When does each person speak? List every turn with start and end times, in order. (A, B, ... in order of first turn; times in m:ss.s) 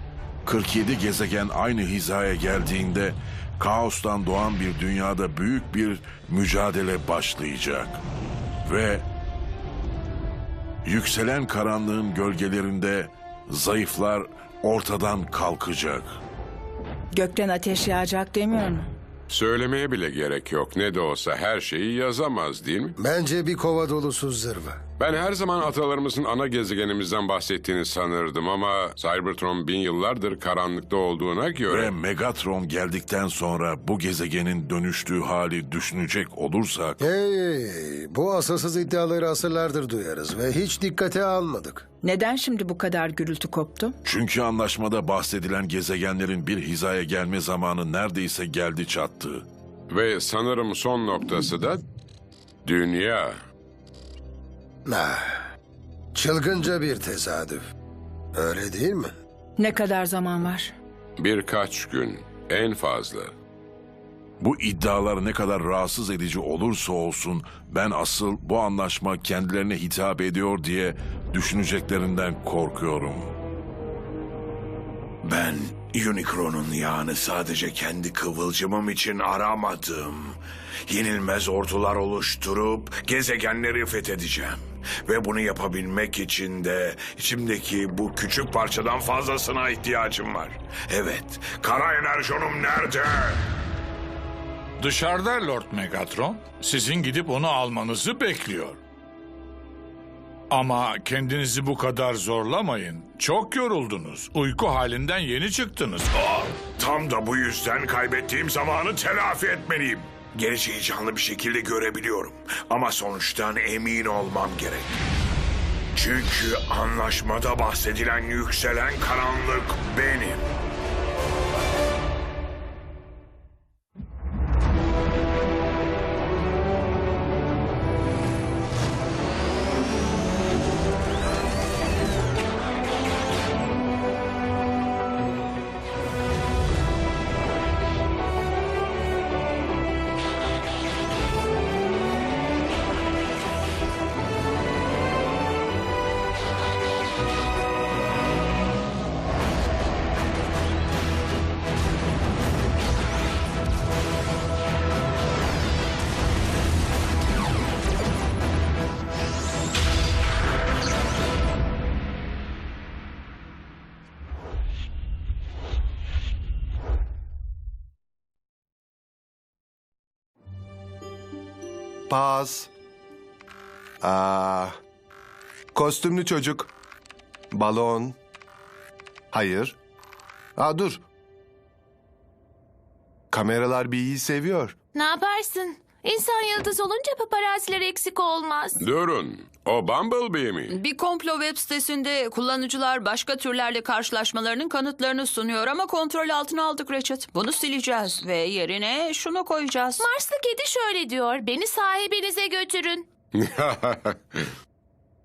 0:00.4-0:08.0 A
0:08.6-0:09.0 A
0:10.8-0:16.2 A
0:17.1-0:18.9 B
0:19.3-0:23.0 C
0:23.0-0:24.8 D
0:25.0-0:31.9 C
0:31.7-0:37.0 A
0:37.0-0:41.9 D
0:42.0-0:44.0 B
0:44.0-0:49.4 A
0:49.9-0:51.8 C
0:52.6-0:53.4 C
0:54.8-0:55.4 D
0:56.1-0:57.7 D
0:58.3-0:59.1 D
0:59.6-1:00.7 B
1:01.2-1:03.3 C
1:04.4-1:13.3 A
1:15.2-1:33.4 E
1:34.8-1:38.8 F
1:40.5-1:46.5 F
1:46.8-1:55.0 E
1:55.9-2:00.5 E
2:52.1-2:52.7 G
2:54.0-2:54.8 G
2:55.7-2:56.7 G
2:57.5-2:58.2 G
2:59.3-2:59.8 G
3:00.6-3:01.0 G
3:03.3-3:04.8 G
3:04.9-3:08.8 H
3:08.8-3:10.7 C
3:10.7-3:20.0 I
3:20.0-3:23.1 H
3:23.3-3:24.5 C